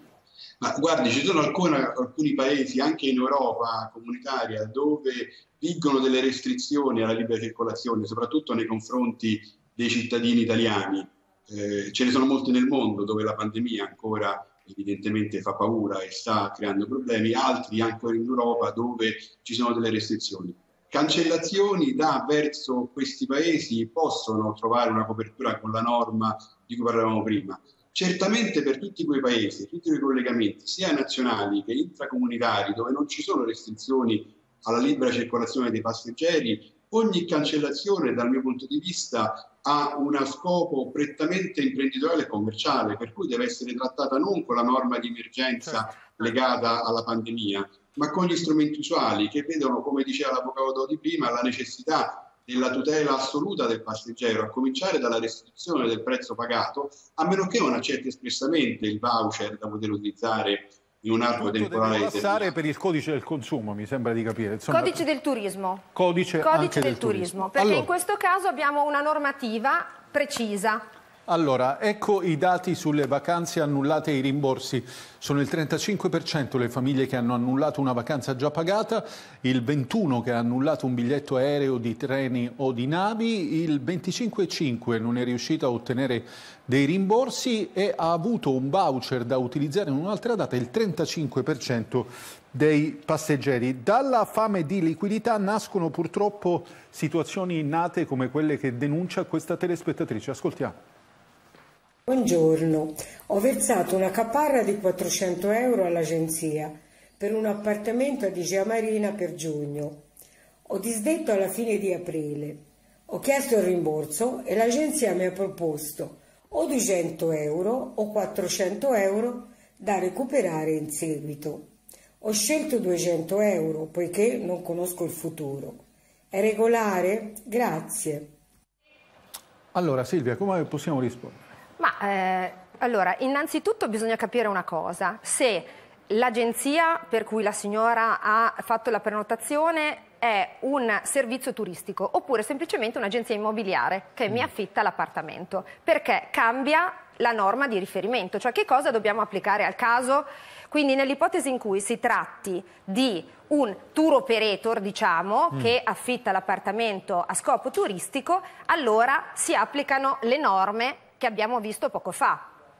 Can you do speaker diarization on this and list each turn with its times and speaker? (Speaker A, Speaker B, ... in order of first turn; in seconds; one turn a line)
Speaker A: 0.6-62.5
Speaker B: 61.4-65.0
Speaker C: 64.7-65.9
Speaker B: 65.9-67.9
Speaker C: 66.4-70.8
Speaker B: 71.3-100.8
Speaker D: 102.1-110.0
Speaker D: 110.7-128.3
Speaker B: 129.7-131.4
Speaker C: 131.8-162.5